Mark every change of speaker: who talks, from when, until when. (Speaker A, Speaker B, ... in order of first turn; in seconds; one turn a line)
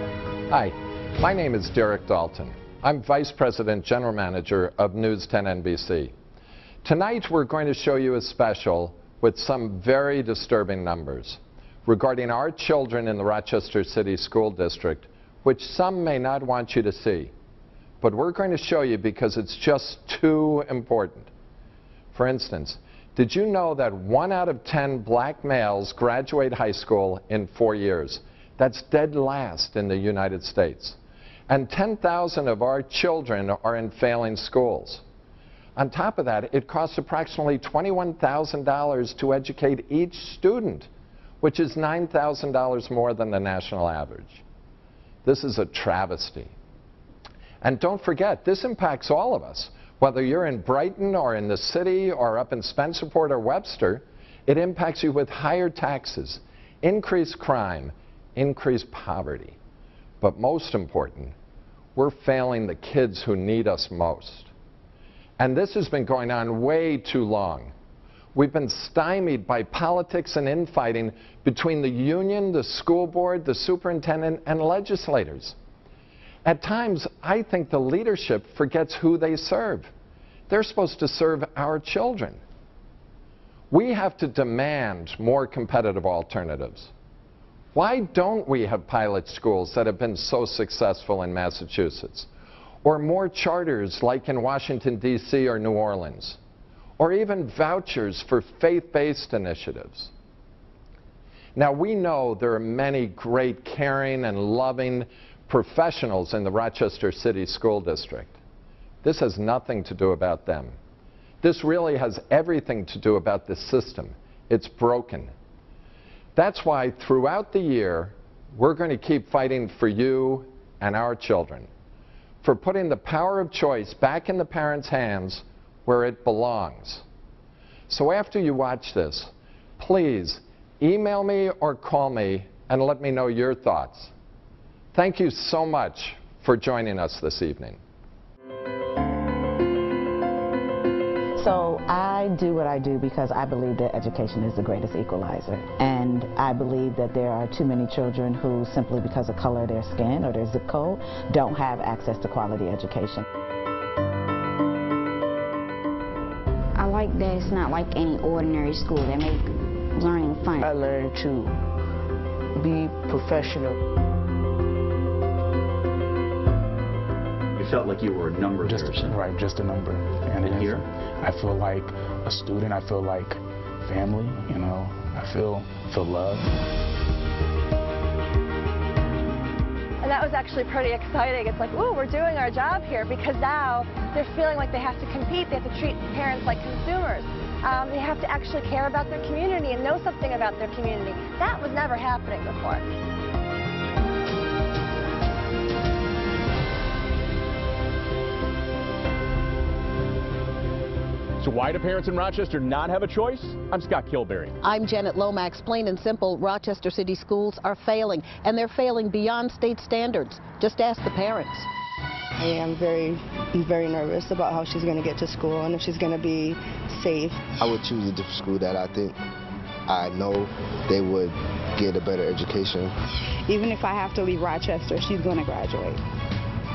Speaker A: 0.5-6.1
Speaker A: 6.8-17.3
Speaker A: 18.0-21.3
Speaker A: 22.1-35.0
Speaker A: 35.7-40.9
Speaker A: 41.4-44.4
Speaker A: 45.2-46.5
Speaker A: 47.6-59.6
Speaker A: 60.2-61.3
Speaker A: 62.0-64.5
Speaker A: 65.4-67.7
Speaker A: 68.3-75.6
Speaker A: 76.4-79.9
Speaker A: 80.5-82.4
Speaker A: 83.7-86.9
Speaker A: 87.7-92.3
Speaker A: 92.8-96.4
Speaker A: 97.0-100.1
Speaker A: 101.5-108.4
Speaker A: 109.0-110.8
Speaker A: 111.4-115.3
Speaker A: 116.3-121.7
Speaker A: 122.4-127.0
Speaker A: 127.9-134.1
Speaker A: 134.9-137.8
Speaker B: 141.3-153.2
Speaker C: 156.8-160.7
Speaker D: 160.6-161.6
Speaker D: 162.5-163.8
Speaker E: 167.5-169.2
Speaker F: 168.6-176.4
Speaker E: 170.4-170.8
Speaker G: 180.0-192.8
Speaker H: 201.4-204.6
Speaker I: 204.6-211.7
Speaker J: 212.4-217.5
Speaker K: 217.6-219.2
Speaker K: 219.9-222.9
Speaker J: 223.4-226.0